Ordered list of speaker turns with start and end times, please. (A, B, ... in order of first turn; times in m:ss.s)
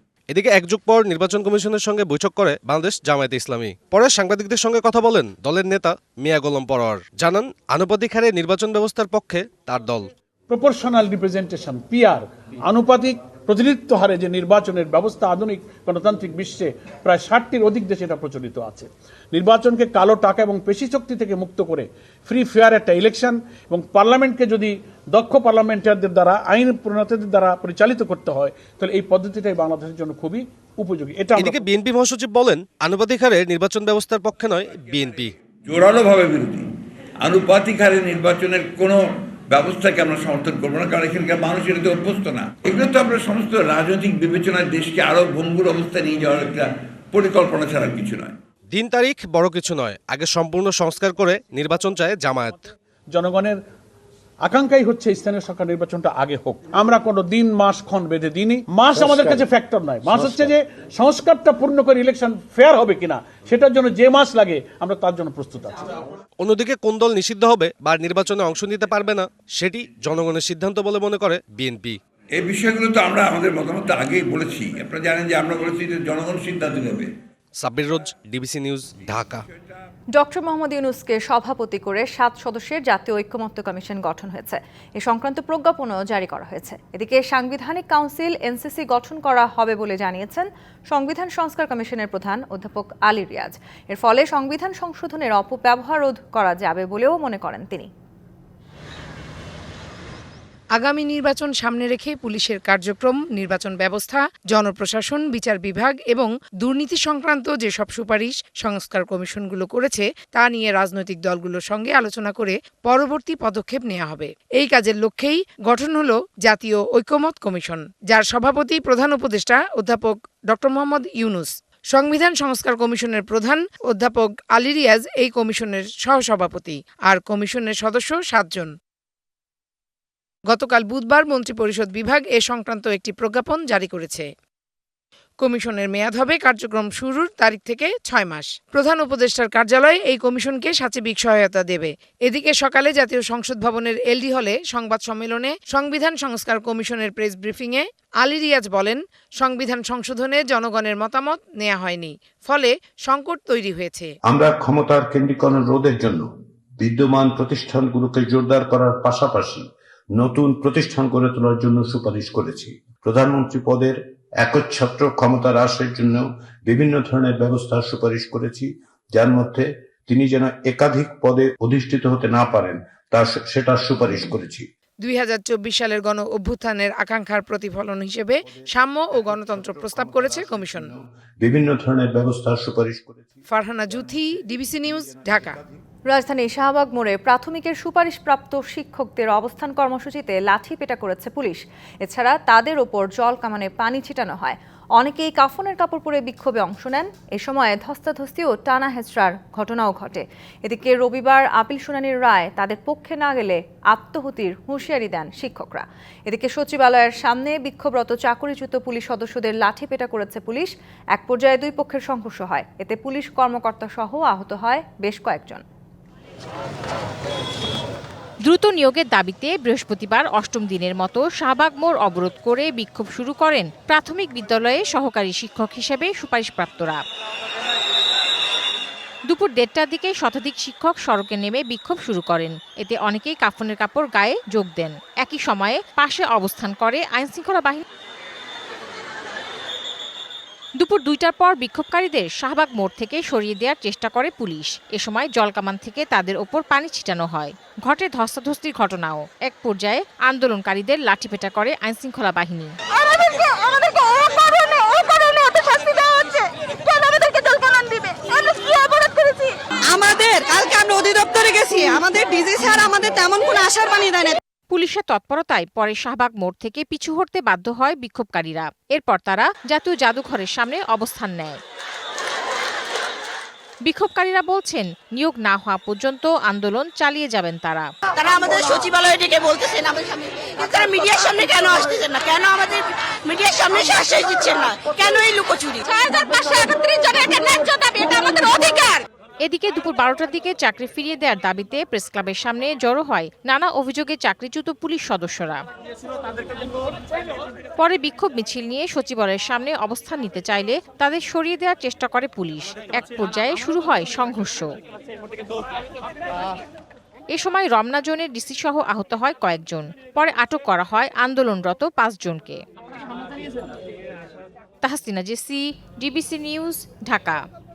0:00.3-0:10.1 A
0:10.5-0:31.6 B
0:31.4-0:35.3 A
0:35.7-0:36.7 C
0:37.2-0:48.4 C
0:48.7-0:52.7 A
0:53.1-0:53.6 B
0:54.5-1:06.0 B
1:06.4-1:12.0 A
1:12.4-1:17.1 C
1:17.6-1:19.4 A
1:20.2-1:37.9 D
1:40.8-2:08.7 E
2:10.5-2:14.3 E
2:15.4-2:34.2 E
2:34.3-2:36.3 F
2:36.8-2:54.7 F
2:55.0-3:01.0 E
3:01.4-3:03.2 F
3:03.5-3:05.6 E
3:06.1-3:35.6 D
3:38.4-3:47.0 G
3:49.3-3:57.8 G
4:00.8-4:12.8 G
4:12.9-4:24.4 H
4:24.7-4:31.6 G
4:33.9-4:37.9 G
4:38.2-4:49.0 H
4:49.4-4:55.6 G
4:57.8-5:04.7 G
5:07.3-5:12.6 G
5:14.8-5:17.4 G